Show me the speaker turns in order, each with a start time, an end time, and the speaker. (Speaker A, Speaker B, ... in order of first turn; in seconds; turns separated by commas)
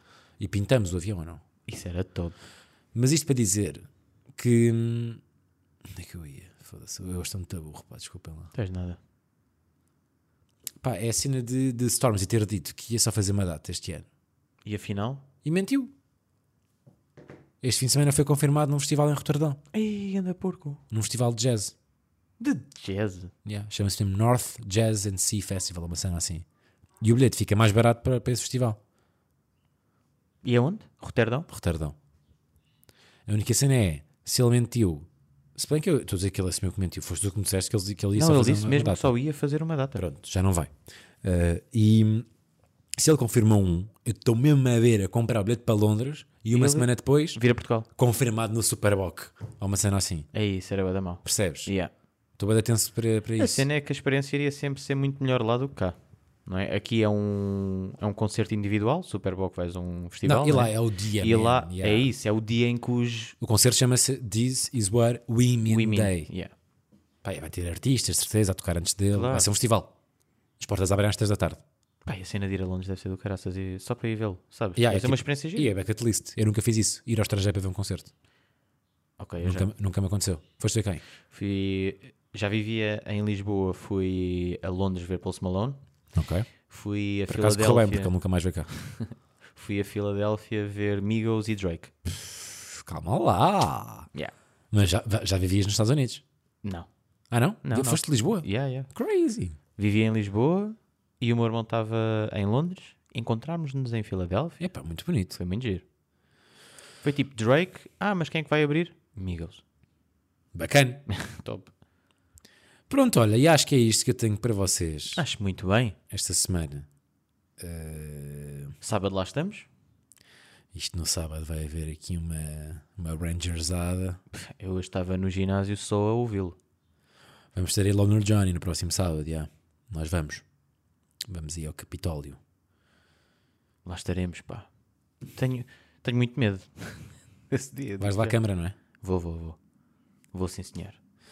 Speaker A: 0.4-1.4, Speaker B: 1.7-2.4, Speaker A: 2.9-5.2, Speaker A: 5.9-8.5, Speaker B: 8.5-9.0, Speaker A: 10.8-14.1, Speaker B: 14.6-15.2, Speaker A: 15.4-15.9, Speaker A: 17.6-19.6, Speaker B: 19.7-20.8, Speaker A: 20.9-21.7, Speaker B: 22.4-23.3, Speaker A: 23.4-26.4, Speaker A: 27.0-28.8, Speaker B: 30.4-31.5, Speaker A: 31.5-31.9, Speaker A: 33.3-39.1, Speaker B: 38.1-40.0, Speaker A: 40.0-40.7, Speaker A: 41.2-42.3, Speaker A: 43.0-50.3, Speaker B: 46.5-47.9, Speaker B: 50.3-51.9, Speaker A: 51.2-51.7, Speaker A: 52.4-53.7, Speaker B: 53.4-63.4, Speaker A: 60.2-62.1, Speaker A: 63.4-66.3, Speaker B: 65.7-66.5, Speaker A: 67.2-69.9, Speaker B: 69.1-69.5, Speaker A: 70.6-71.6, Speaker B: 72.0-75.7, Speaker A: 74.8-78.1, Speaker B: 79.2-79.7, Speaker A: 79.4-81.0, Speaker B: 81.3-85.8, Speaker A: 86.1-86.5, Speaker B: 86.7-88.1, Speaker A: 87.3-88.7, Speaker B: 88.7-91.9, Speaker A: 92.2-94.1, Speaker A: 94.7-96.2, Speaker B: 96.6-96.9, Speaker A: 97.3-99.6, Speaker B: 97.6-98.9, Speaker B: 99.8-104.6, Speaker A: 104.6-105.4, Speaker B: 105.3-105.8, Speaker B: 107.0-109.6, Speaker A: 110.5-111.0, Speaker B: 111.1-111.7, Speaker A: 112.9-115.2, Speaker B: 115.1-116.0, Speaker A: 116.1-116.9, Speaker A: 117.6-118.7, Speaker B: 118.8-119.7, Speaker A: 120.7-124.2, Speaker B: 124.3-126.6, Speaker A: 127.5-130.4, Speaker A: 131.3-132.4, Speaker B: 133.8-134.7, Speaker B: 135.2-138.4, Speaker A: 138.0-138.8, Speaker B: 139.0-139.6, Speaker B: 140.3-141.0